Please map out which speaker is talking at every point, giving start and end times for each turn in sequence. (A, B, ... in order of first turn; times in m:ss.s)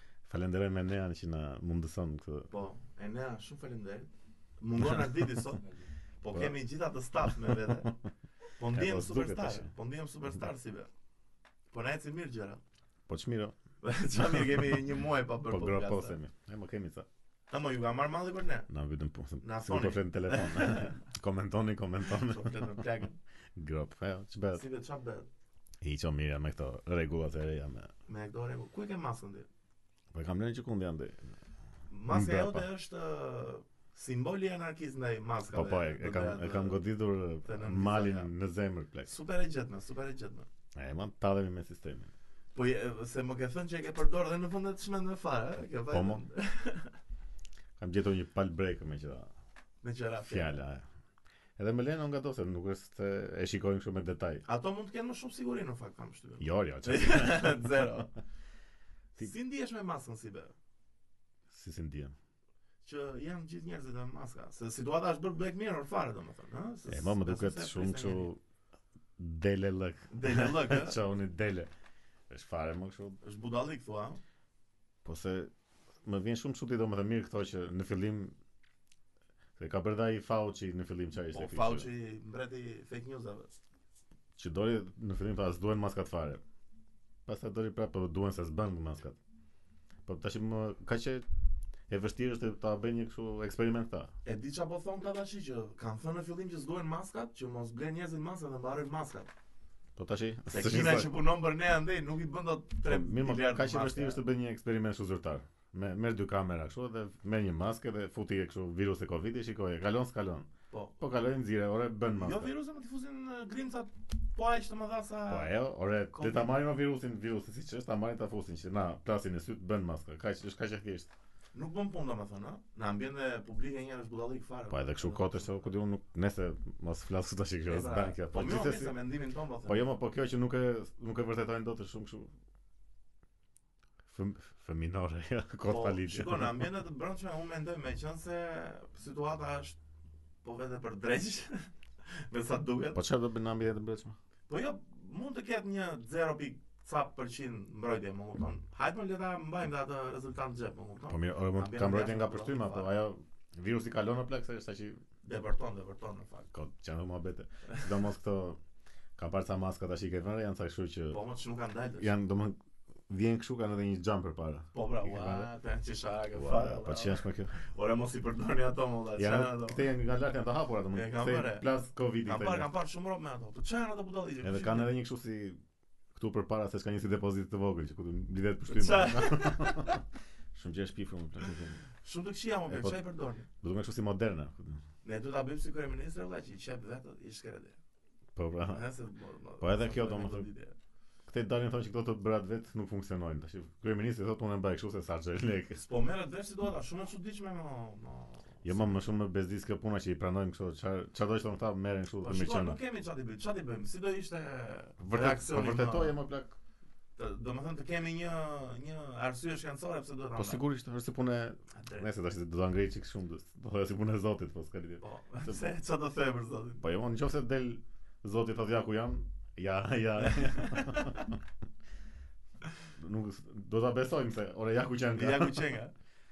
0:00.2-0:02.5 A
0:02.5-0:05.6 B
0:04.8-0:05.3 A
0:06.2-0:07.9 B
0:07.2-0:07.9 A
0:08.6-0:10.9 B
0:08.7-0:09.7 A
0:11.7-0:12.6 B
0:13.1-0:13.5 A
0:13.8-0:16.2 B
0:14.3-0:14.6 A
0:15.5-0:17.0 A
0:17.5-0:18.7 B
0:18.7-0:22.8 A
0:19.4-0:21.0 B
0:22.1-0:23.2 B
0:23.5-0:24.6 A
0:24.5-0:25.3 B
0:25.8-0:27.9 A
0:28.1-0:29.5 B
0:30.1-0:31.2 A
0:31.9-0:36.8 B
0:32.1-0:32.7 A
0:35.5-0:39.1 A
0:37.4-0:38.3 B
0:39.0-0:40.5 B
0:40.7-0:42.1 A
0:42.5-0:46.9 B
0:45.9-0:46.2 A
0:47.8-0:49.3 A
0:49.8-0:50.6 B
0:50.2-0:50.8 A
0:51.6-0:54.4 A
0:54.4-0:58.1 B
0:56.4-0:57.9 A
0:59.2-1:00.5 B
1:01.5-1:02.1 A
1:02.8-1:08.3 B
1:06.9-1:08.4 A
1:09.2-1:11.7 A
1:10.1-1:11.0 B
1:12.3-1:13.2 A
1:13.2-1:14.2 B
1:15.0-1:15.5 A
1:16.0-1:18.3 A
1:19.6-1:21.8 A
1:21.3-1:23.5 B
1:24.4-1:26.4 A
1:27.2-1:29.2 A
1:30.0-1:31.2 A
1:31.9-1:34.1 A
1:34.2-1:39.3 B
1:40.0-1:41.1 A
1:40.5-1:44.2 B
1:42.8-1:52.5 A
1:52.2-1:55.5 B
1:55.3-2:01.1 A
1:56.1-1:56.6 B
2:01.5-2:05.5 B
2:04.7-2:09.0 A
2:07.7-2:09.9 B
2:09.6-2:12.3 A
2:14.0-2:16.6 A
2:15.7-2:19.8 B
2:20.4-2:23.0 B
2:22.9-2:24.2 A
2:24.5-2:32.9 B
2:31.1-2:35.0 A
2:35.2-2:36.5 B
2:36.5-2:38.6 A
2:39.2-2:41.2 A
2:41.1-2:42.1 B
2:42.0-2:42.6 A
2:43.1-2:45.5 A
2:44.7-2:49.8 B
2:46.3-2:47.5 A
2:49.2-2:52.7 A
2:50.9-2:51.7 B
2:52.2-2:55.0 B
2:54.4-2:55.6 A
2:56.1-3:00.0 A
2:58.6-3:00.0 B
3:00.5-3:01.8 A
3:02.0-3:03.5 B
3:02.7-3:03.0 A
3:03.6-3:04.8 A
3:05.0-3:07.8 B
3:08.4-3:08.9 A
3:08.7-3:10.8 B
3:09.6-3:10.4 A
3:11.3-3:15.8 A
3:15.8-3:18.9 B
3:18.6-3:22.8 A
3:22.2-3:26.2 B
3:25.0-3:26.6 A
3:27.2-3:30.6 B
3:30.4-3:35.6 A
3:31.7-3:32.1 B
3:35.0-3:36.8 B
3:36.8-3:41.3 A
3:40.2-3:41.3 B
3:43.0-3:45.7 A
3:45.1-3:45.9 B